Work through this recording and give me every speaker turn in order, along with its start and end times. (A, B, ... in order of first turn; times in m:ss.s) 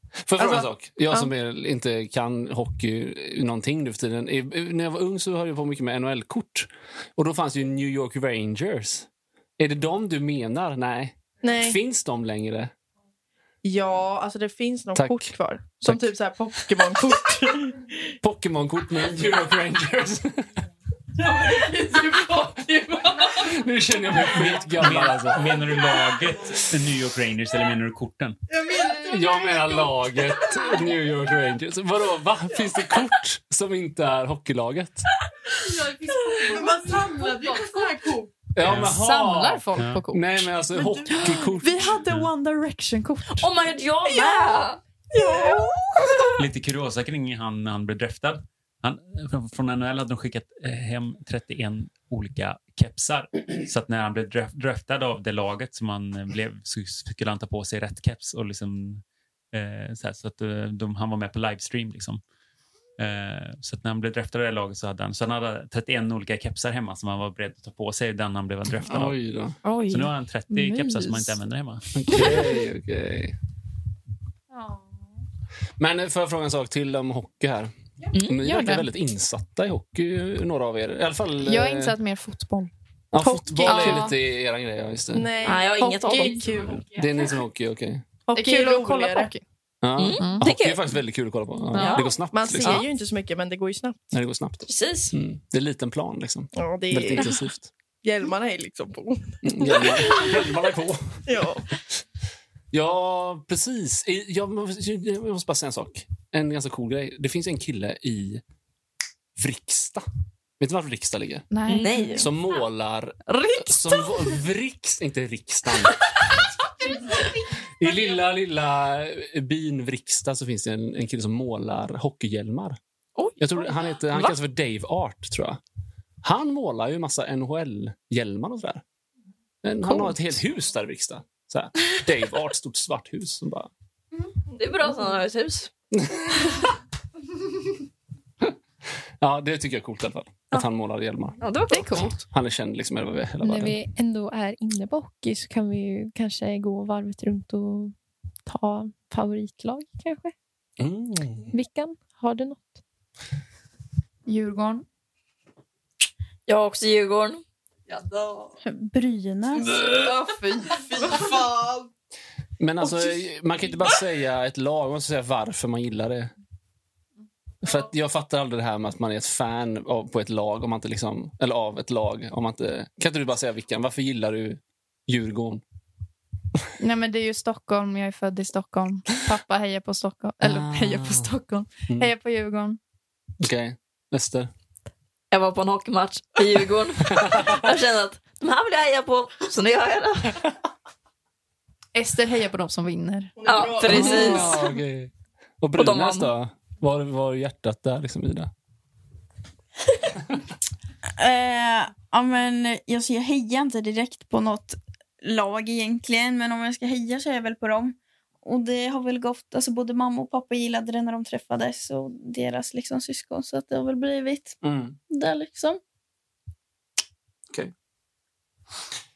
0:00.2-0:12.7 A
0:00.4-0:01.3 B
0:11.4-0:11.8 B
0:13.6-0:18.0 B
0:14.9-0:15.3 A
0:15.8-0:16.1 A
0:18.2-0:20.5 A
0:23.3-0:25.7 A
0:24.3-0:28.4 C
0:28.5-0:29.9 B
0:29.0-0:35.1 A
0:36.4-0:38.3 B
0:38.5-0:42.0 A
0:38.6-0:39.0 C
0:38.7-0:40.5 D
0:39.8-0:40.0 C
0:40.7-0:41.5 B
0:41.1-0:43.5 D
0:42.0-0:42.3 C
0:43.3-0:44.8 E
0:45.1-0:46.3 B
0:45.2-0:45.8 F
0:46.4-1:02.2 C
1:03.0-1:09.2 C
1:08.8-1:09.6 A
1:09.6-1:11.4 D
1:09.9-1:12.2 C
1:11.9-1:13.4 A
1:14.5-1:14.8 D
1:15.8-1:22.0 A
1:18.1-1:18.4 E
1:18.4-1:18.9 D
1:21.4-1:22.7 D
1:23.1-1:25.3 A
1:23.2-1:24.1 B
1:23.3-1:24.2 D
1:25.1-1:26.9 B
1:25.4-1:26.6 E
1:26.9-1:28.0 A
1:28.3-1:29.3 B
1:28.3-1:29.4 D
1:29.8-1:32.8 A
1:30.0-1:31.0 E
1:30.1-1:30.5 D
1:31.7-1:32.1 D
1:31.7-1:32.9 E
1:32.2-1:34.0 B
1:34.1-1:37.7 A
1:34.6-1:35.2 E
1:36.6-1:37.4 B
1:38.0-1:40.6 B
1:39.4-1:41.5 A
1:41.2-1:41.7 B
1:42.7-1:48.4 A
1:49.4-1:50.0 A
1:50.6-1:51.5 A
1:51.5-1:52.3 D
1:51.6-1:52.3 E
1:52.1-1:56.0 A
1:53.3-1:54.3 E
1:57.8-2:02.8 A
2:03.2-2:04.4 E
2:03.4-2:05.6 A
2:06.2-2:08.8 A
2:09.6-2:13.7 A
2:14.5-2:15.7 E
2:15.9-2:16.6 A
2:19.2-2:21.4 A
2:21.4-2:22.2 E
2:21.7-2:22.1 D
2:21.9-2:23.8 A
2:23.4-2:27.9 G
2:28.4-2:30.3 G
2:30.8-2:31.5 A
2:31.5-2:32.8 G
2:34.2-2:34.8 D
2:36.5-2:37.4 E
2:38.6-2:40.0 F
2:39.9-2:41.2 G
2:41.2-2:41.9 F
2:42.6-2:46.3 A
2:47.6-2:55.6 A
2:56.8-3:02.8 D
3:00.4-3:01.3 A
3:03.4-3:04.5 A
3:05.3-3:10.4 E
3:07.1-3:07.6 A
3:11.9-3:13.3 D
3:13.4-3:14.7 B
3:13.4-3:14.6 E
3:13.8-3:18.5 A
3:15.7-3:16.3 E
3:21.2-3:34.6 F
3:34.6-3:35.0 A
3:35.1-3:35.8 F